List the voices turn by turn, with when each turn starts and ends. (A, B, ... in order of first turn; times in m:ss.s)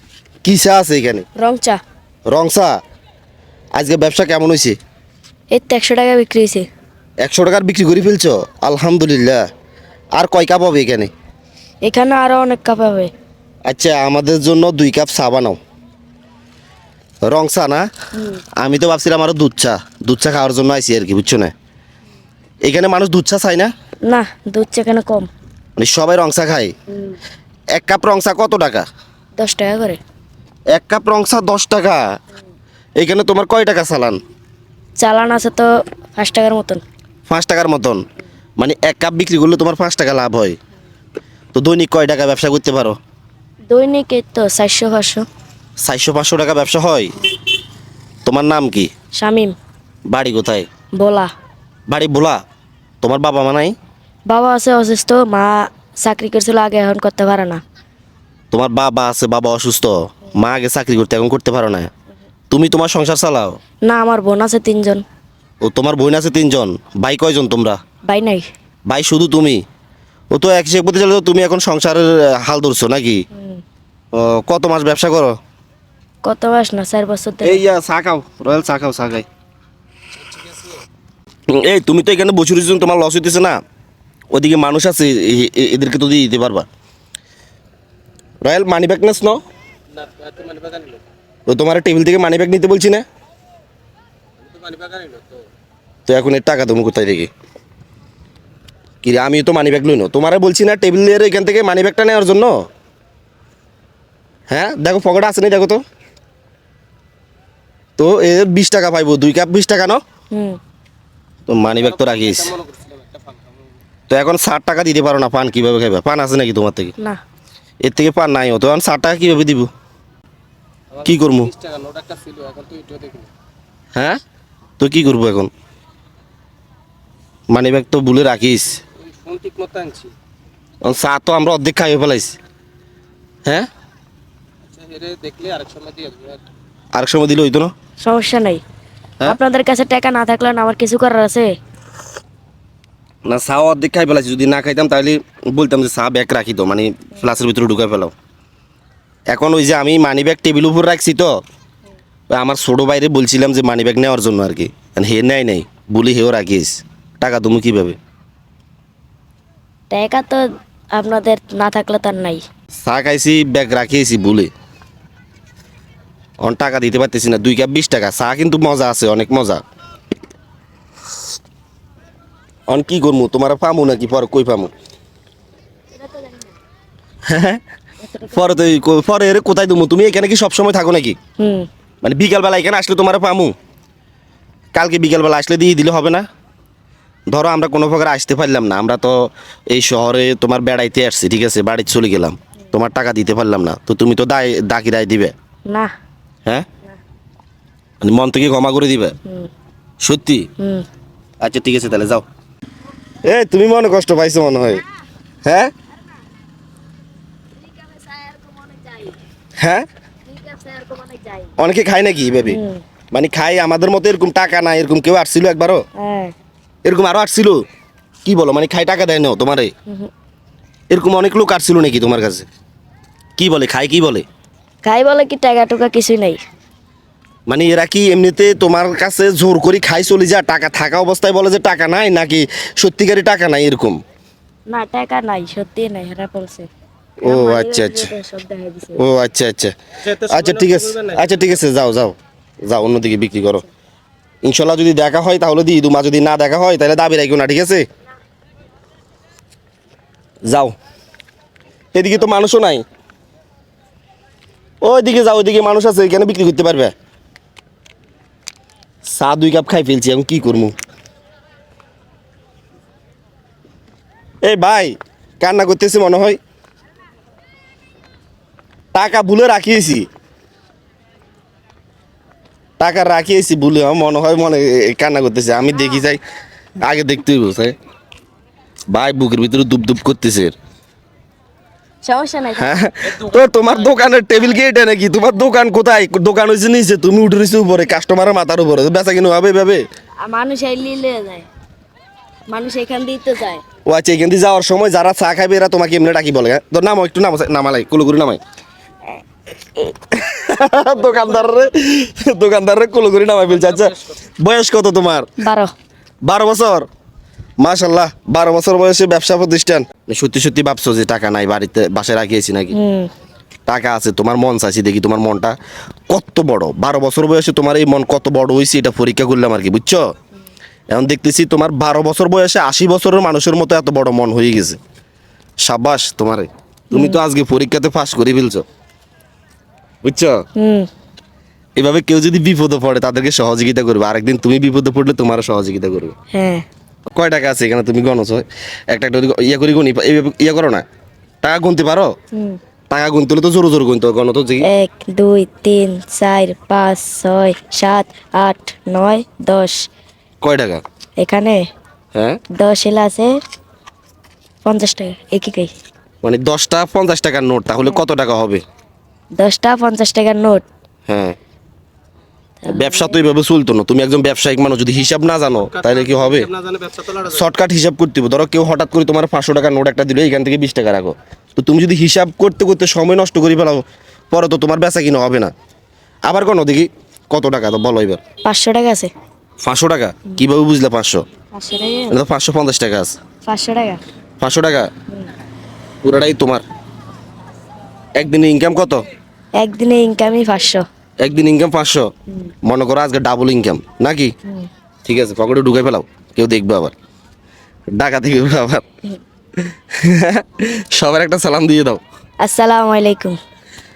0:00.4-0:01.2 A
0:01.4-0:01.8 B
0:02.3-0:02.8 A
0:03.8-0:04.8 A
0:05.5-0:06.7 B
0:07.2-0:09.4 A
0:10.2-0:11.1 A
0:11.8-0:13.1 B
0:13.7-0:15.6 A
0:17.2-0:17.9 A
0:18.2-0:18.4 B
0:18.6-0:21.5 A
0:22.6-0:23.7 A
0:24.0-0:25.3 B
0:25.8-0:26.7 A
0:26.9-0:27.2 B
0:27.7-0:28.9 A
0:29.4-0:30.0 B
0:30.7-0:32.0 A
0:33.0-0:34.2 A
0:35.0-0:36.8 B
0:37.3-0:38.0 A
0:38.6-0:40.6 A
0:41.5-0:43.0 A
0:43.7-0:45.3 B
0:45.8-0:47.1 A
0:48.2-0:48.9 A
0:49.2-0:49.6 B
0:50.1-0:50.7 A
0:51.0-0:51.3 B
0:51.9-0:52.4 A
0:53.0-0:53.7 A
0:54.3-0:57.6 B
0:58.5-1:01.9 A
1:02.5-1:03.6 A
1:03.9-1:05.0 B
1:05.6-1:07.8 A
1:08.1-1:08.5 B
1:08.9-1:09.6 A
1:10.3-1:13.2 A
1:13.3-1:13.6 B
1:14.1-1:15.4 A
1:16.2-1:17.6 B
1:17.4-1:19.2 A
1:21.5-1:23.6 A
1:24.3-1:26.7 A
1:28.4-1:29.4 A
1:30.1-1:31.0 C
1:31.5-1:33.0 A
1:34.6-1:35.2 C
1:36.1-1:37.3 A
1:39.0-1:42.6 A
1:44.5-1:45.8 A
1:48.0-1:50.0 A
1:50.3-1:50.6 B
1:51.5-1:52.6 A
1:54.1-1:56.9 A
1:57.8-1:59.7 A
2:01.0-2:01.5 A
2:01.6-2:03.3 C
2:03.9-2:04.2 A
2:04.8-2:05.5 A
2:07.5-2:08.8 A
2:09.2-2:10.0 C
2:10.8-2:12.4 A
2:14.8-2:16.4 C
2:16.9-2:17.7 A
2:18.0-2:18.6 B
2:19.2-2:21.5 B
2:23.3-2:28.1 A
2:29.3-2:31.3 A
2:32.3-2:38.0 A
2:39.9-2:42.4 B
2:42.8-2:44.5 A
2:46.4-2:49.6 A
2:52.7-2:54.7 A
2:55.9-2:56.5 B
2:57.3-2:57.6 A
2:58.0-2:58.5 B
2:58.3-3:01.2 A
3:01.4-3:01.7 B
3:02.0-3:03.5 A
3:04.7-3:06.2 A
3:07.3-3:15.3 A
3:18.0-3:19.1 A
3:20.0-3:20.5 A
3:20.6-3:20.8 B
3:21.4-3:22.2 A
3:23.2-3:24.8 A
3:25.4-3:25.7 A
3:27.6-3:29.2 B
3:29.6-3:29.8 A
3:30.3-3:31.5 B
3:31.6-3:32.6 A
3:32.4-3:32.8 B
3:33.1-3:35.8 A
3:36.0-3:36.3 B
3:36.8-3:37.6 A
3:38.2-3:39.7 A
3:40.9-3:42.5 A
3:43.4-3:44.2 A
3:44.8-3:46.4 B
3:47.5-3:54.0 A
3:54.7-3:56.7 B
3:57.2-3:58.1 A
3:57.3-3:59.0 B
3:59.0-4:02.2 A
4:02.7-4:03.6 A
4:04.4-4:07.8 A
4:10.4-4:10.7 A
4:11.9-4:12.8 A
4:14.8-4:16.9 A
4:19.1-4:20.7 A
4:24.4-4:26.4 A
4:28.9-4:30.1 A
4:32.8-4:36.2 A
4:36.8-4:37.7 A
4:38.9-4:40.5 A
4:42.0-4:42.7 B
4:42.6-4:49.8 A
4:50.2-4:51.5 B
4:52.5-4:53.6 B
4:53.8-4:58.4 A
4:59.8-5:05.3 A
5:05.4-5:05.7 B
5:06.2-5:06.9 A
5:07.6-5:12.7 A
5:12.7-5:13.1 B
5:13.7-5:15.5 A
5:16.1-5:20.1 A
5:20.9-5:24.8 A
5:25.6-5:28.6 A
5:26.9-5:27.2 B
5:30.0-5:30.4 A
5:30.6-5:30.9 B
5:31.8-5:36.1 A
5:36.3-5:36.6 B
5:37.1-5:40.8 A
5:41.4-5:42.1 A
5:42.3-5:42.6 B
5:42.9-5:44.7 A
5:44.6-5:49.9 B
5:50.4-5:50.8 A
5:51.2-5:51.6 B
5:52.1-5:52.4 A
5:52.5-5:53.3 B
5:54.6-5:55.7 B
5:56.2-5:58.6 A
5:59.4-6:00.6 B
6:01.1-6:01.4 A
6:02.6-6:03.2 B
6:02.7-6:06.5 A
6:07.1-6:15.5 A
6:16.2-6:18.2 A
6:18.4-6:19.1 B
6:19.6-6:21.2 A
6:21.5-6:22.2 B
6:22.1-6:23.2 A
6:23.4-6:24.0 B
6:24.4-6:24.9 A
6:26.0-6:26.6 A
6:28.2-6:29.0 A
6:29.6-6:30.8 B
6:31.2-6:32.1 A
6:32.6-6:34.3 A
6:35.0-6:36.9 A
6:37.9-6:38.8 A
6:39.6-6:42.0 A
6:42.4-6:43.4 B